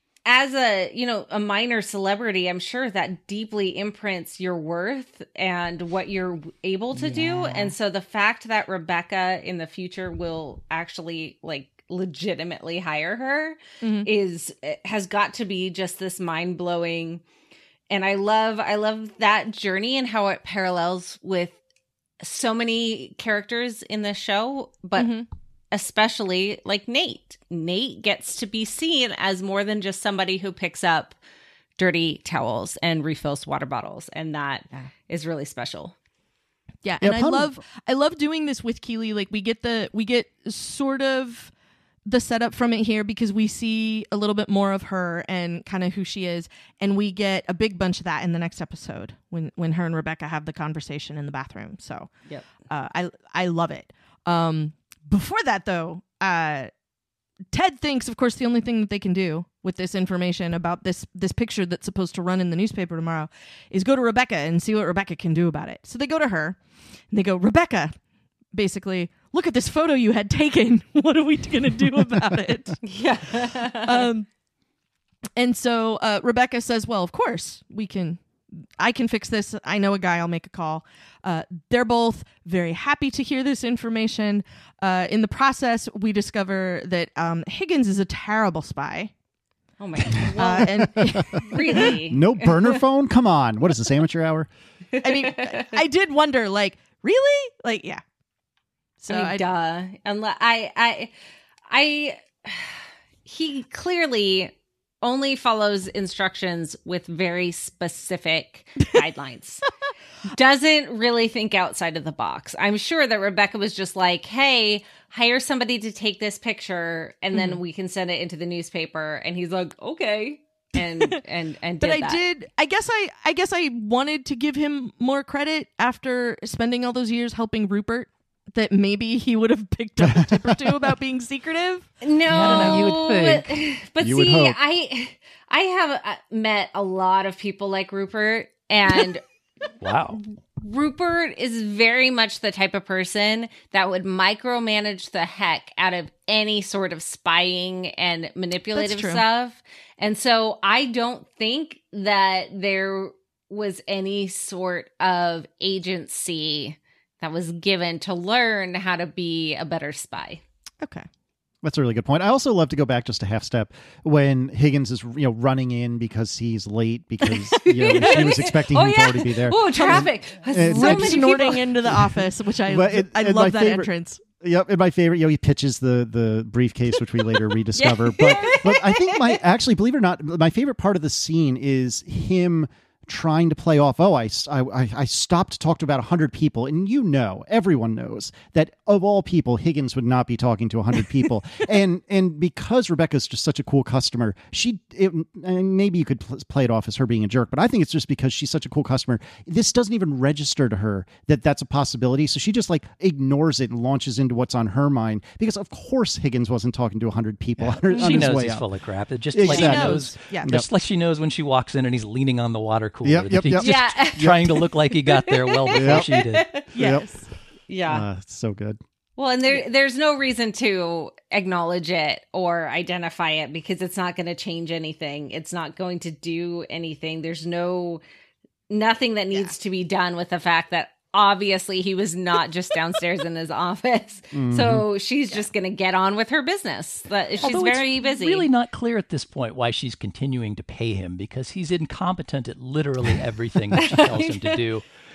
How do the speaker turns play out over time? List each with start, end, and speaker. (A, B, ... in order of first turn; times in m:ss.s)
0:00.2-0:17.2 A
0:13.8-0:14.1 B
0:17.9-0:21.6 A
0:22.2-0:25.2 A
0:25.0-0:25.2 B
0:25.7-0:31.2 A
0:31.8-0:35.9 A
0:36.8-0:41.5 B
0:37.0-0:37.6 C
0:42.0-0:52.1 B
0:52.7-0:56.7 B
0:57.5-1:06.6 B
1:07.1-1:07.9 B
1:08.5-1:12.8 B
1:12.8-1:14.1 A
1:13.8-1:14.3 B
1:15.4-1:18.2 B
1:18.8-1:29.1 B
1:29.8-1:32.6 A
1:30.4-1:31.9 B
1:31.3-1:34.5 C
1:35.0-1:35.5 A
1:35.0-1:38.0 B
1:39.0-1:39.4 B
1:39.1-1:41.1 A
1:41.7-1:49.6 A
1:50.3-2:02.2 A
1:57.3-1:57.6 B
2:01.8-2:12.9 B
2:12.0-2:19.2 A
2:12.3-2:13.6 D
2:14.0-2:14.6 C
2:19.8-2:20.2 D
2:20.2-2:40.4 A
2:28.7-2:29.2 B
2:40.8-2:41.1 B
2:41.6-3:28.7 C
2:47.2-2:51.7 A
2:49.7-2:54.2 B
2:57.8-2:59.2 A
3:27.6-3:36.5 D
3:27.9-3:28.2 A
3:29.3-3:30.6 C
3:29.5-3:30.5 B
3:33.0-3:34.6 C
3:33.5-3:36.7 A
3:35.7-3:36.2 C
3:36.7-3:37.1 C
3:36.7-3:37.2 B
3:37.7-3:38.0 A
3:37.8-3:38.8 C
3:39.2-3:48.0 A
3:48.7-3:58.5 A
3:54.3-3:54.8 C
3:57.4-4:04.8 D
4:03.8-4:04.5 A